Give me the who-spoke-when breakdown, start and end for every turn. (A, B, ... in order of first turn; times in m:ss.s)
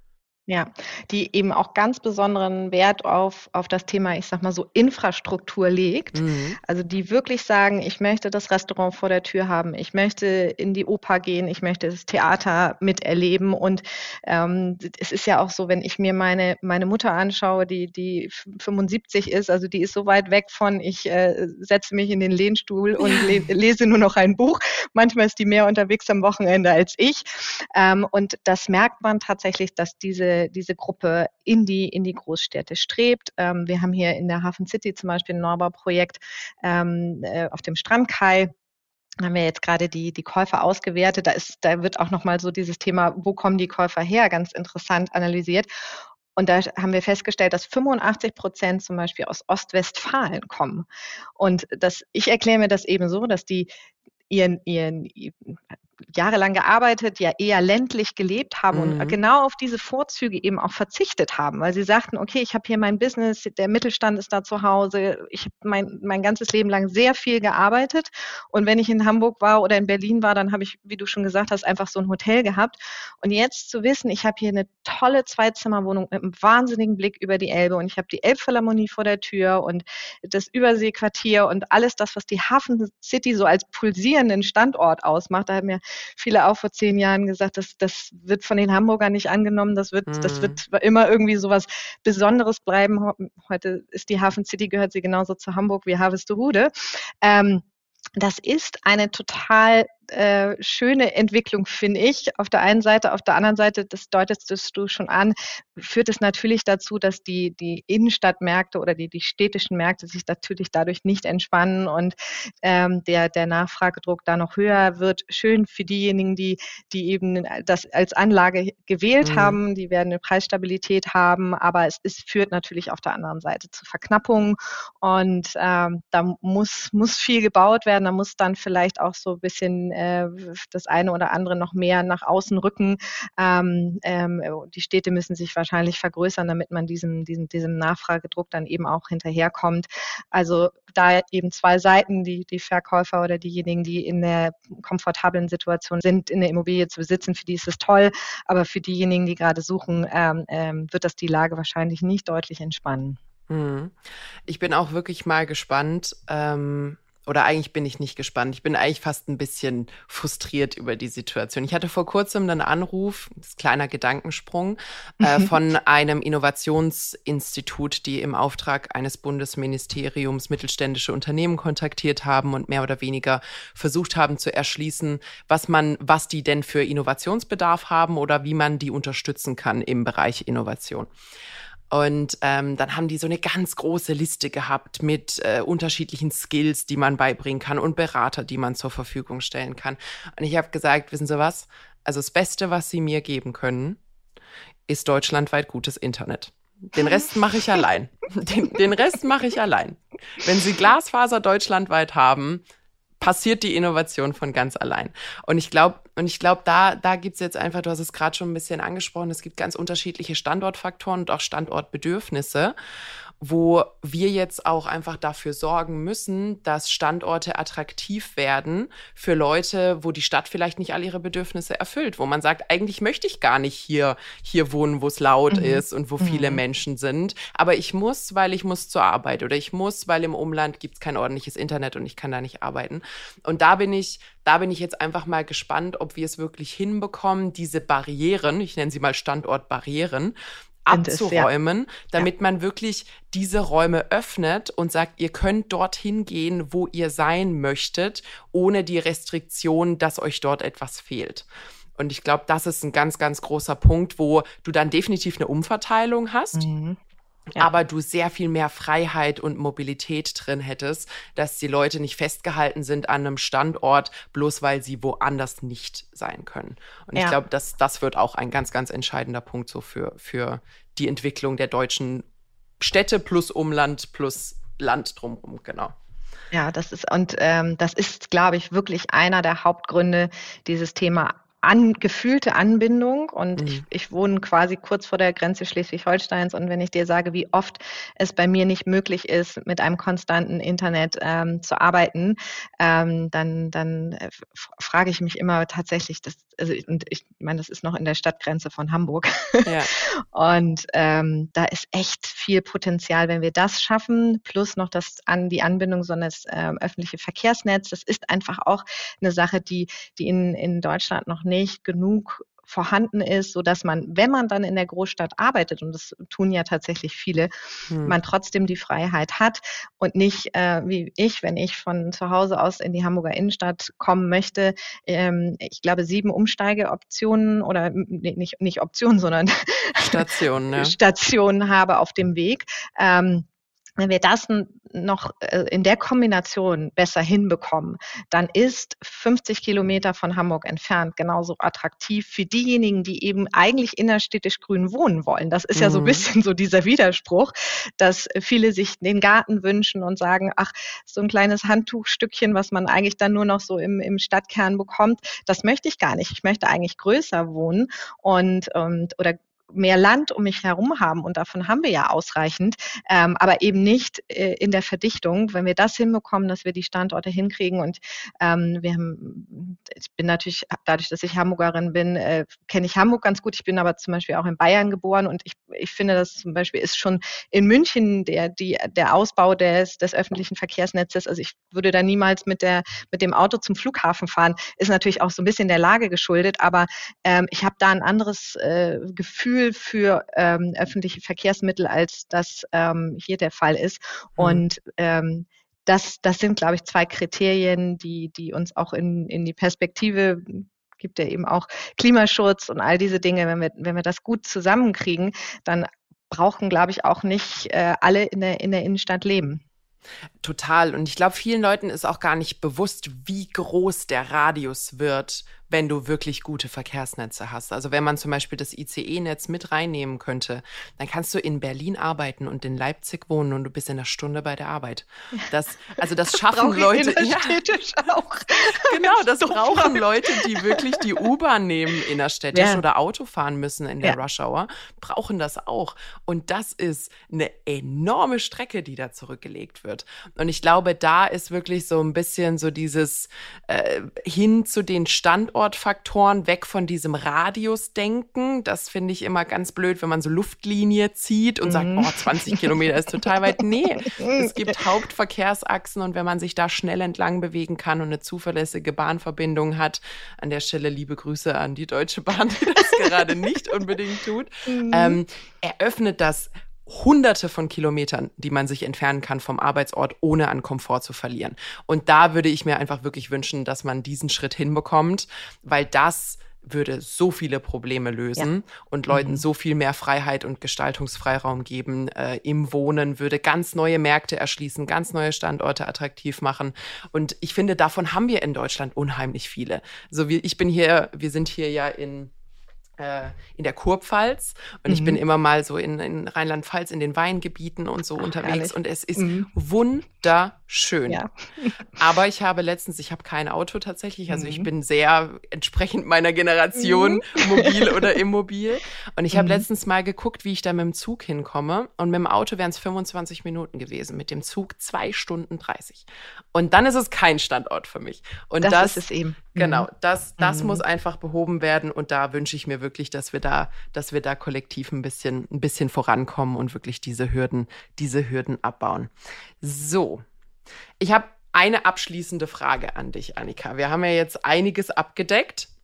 0:00.5-0:38.5 A
0:06.1-0:06.6 B
0:23.0-0:23.4 B
0:39.2-0:45.7 A
0:46.4-0:50.9 A
0:51.4-0:53.7 A
0:54.3-0:55.6 A
0:56.2-1:37.6 A
0:58.7-0:59.2 B
1:30.1-1:30.6 B
1:38.2-2:33.2 A
1:59.2-1:59.6 B
2:33.5-3:01.1 B
3:01.9-3:14.0 B
3:14.9-3:22.6 B
3:23.2-3:32.8 B
3:33.4-4:16.7 B
3:45.5-3:46.6 A
4:00.9-4:01.5 A
4:16.6-4:17.0 A
4:17.6-4:32.2 B
4:32.8-4:36.0 B
4:36.5-5:17.5 A
4:43.6-4:43.8 B
4:59.6-4:59.9 B
5:17.9-5:18.2 B
5:18.0-5:30.2 A
5:30.0-5:31.0 B
5:30.8-5:33.5 A
5:34.0-6:49.6 A
5:45.8-5:46.2 B
6:34.4-6:34.7 B
6:50.4-7:07.6 B
7:06.3-7:11.1 A
7:08.8-8:12.3 B
7:12.5-7:12.8 A
7:31.7-7:32.6 A
7:34.1-7:34.5 A
7:44.7-7:45.2 A
7:59.1-7:59.4 A
8:13.0-8:21.2 B
8:14.9-8:15.2 A
8:18.2-8:19.5 A
8:21.1-8:21.8 A
8:22.0-8:39.0 B
8:24.3-8:24.7 A
8:26.8-8:28.2 A
8:29.3-8:29.6 A
8:38.6-8:40.8 A
8:39.6-8:50.2 B
8:51.0-8:55.7 B